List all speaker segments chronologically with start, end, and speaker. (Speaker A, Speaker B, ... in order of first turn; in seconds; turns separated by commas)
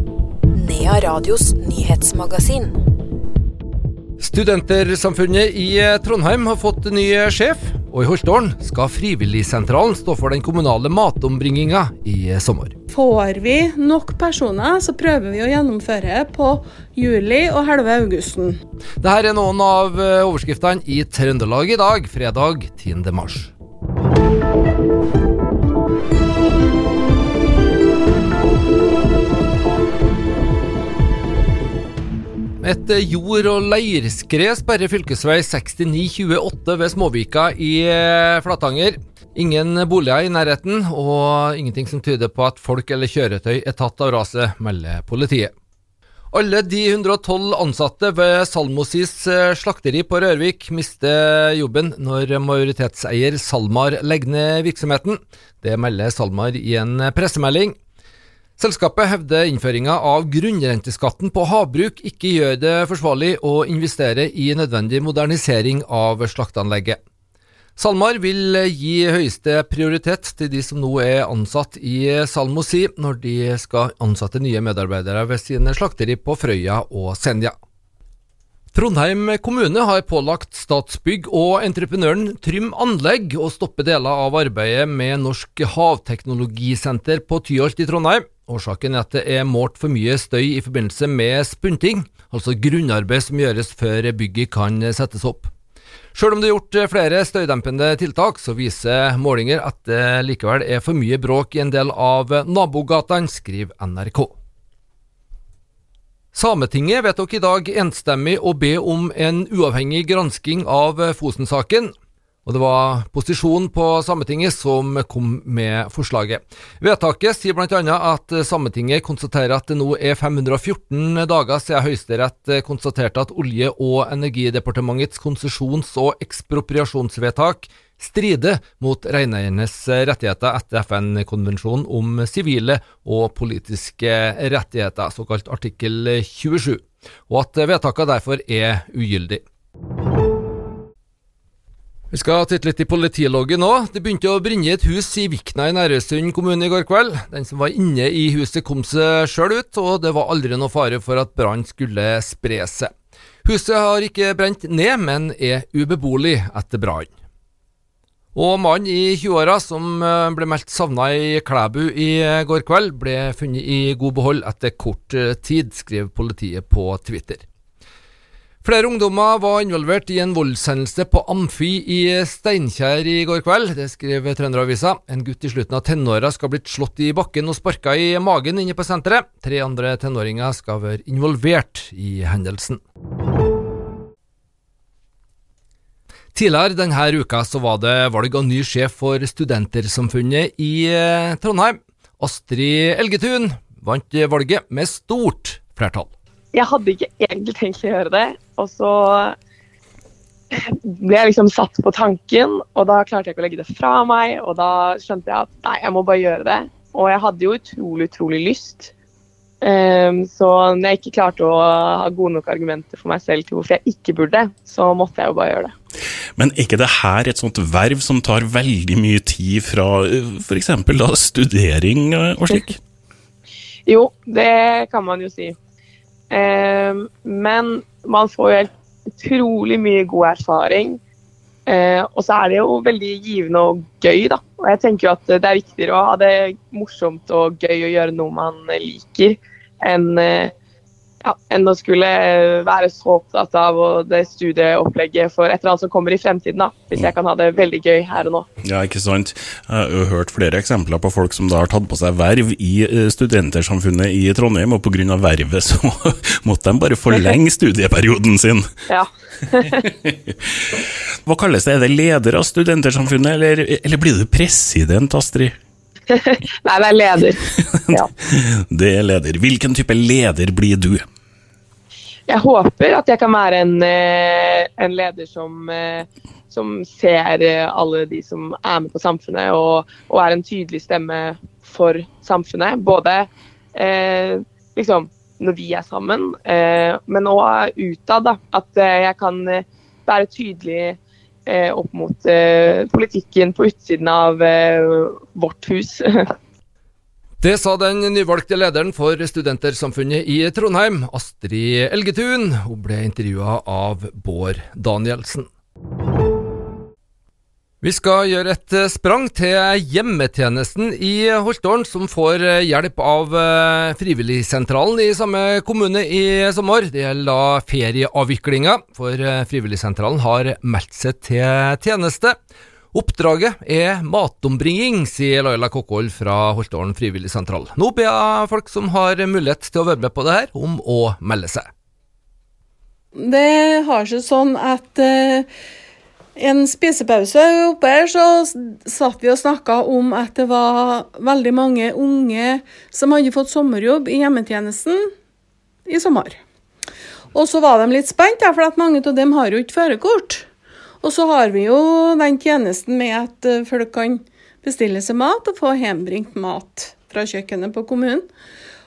Speaker A: 0.5-2.8, Speaker B: 4.2-12.8, Speaker C: 12.9-18.6, Speaker B: 19.0-23.5, Speaker B: 32.6-45.5, Speaker B: 46.3-57.7, Speaker B: 58.6-67.0, Speaker B: 67.8-77.5, Speaker B: 78.7-95.5, Speaker B: 96.1-104.3, Speaker B: 106.3-111.9, Speaker B: 112.4-139.4, Speaker B: 142.1-152.9, Speaker B: 153.4-157.1, Speaker B: 158.3-167.4, Speaker B: 168.6-182.8, Speaker B: 186.3-196.1, Speaker D: 196.5-199.3, Speaker D: 200.5-208.9, Speaker D: 209.6-215.7, Speaker E: 216.4-222.8, Speaker D: 223.9-225.6, Speaker D: 226.3-231.0, Speaker D: 231.7-240.5, Speaker D: 241.2-248.4, Speaker E: 248.6-258.7, Speaker D: 258.9-259.8, Speaker E: 259.9-260.3, Speaker E: 261.2-265.5, Speaker D: 266.1-267.4, Speaker E: 267.8-271.1, Speaker D: 272.3-296.0, Speaker B: 297.4-305.5, Speaker B: 307.8-322.3, Speaker B: 322.9-331.7, Speaker C: 333.1-335.5, Speaker C: 336.4-345.0, Speaker C: 345.9-346.4, Speaker C: 347.3-350.4, Speaker C: 351.0-358.3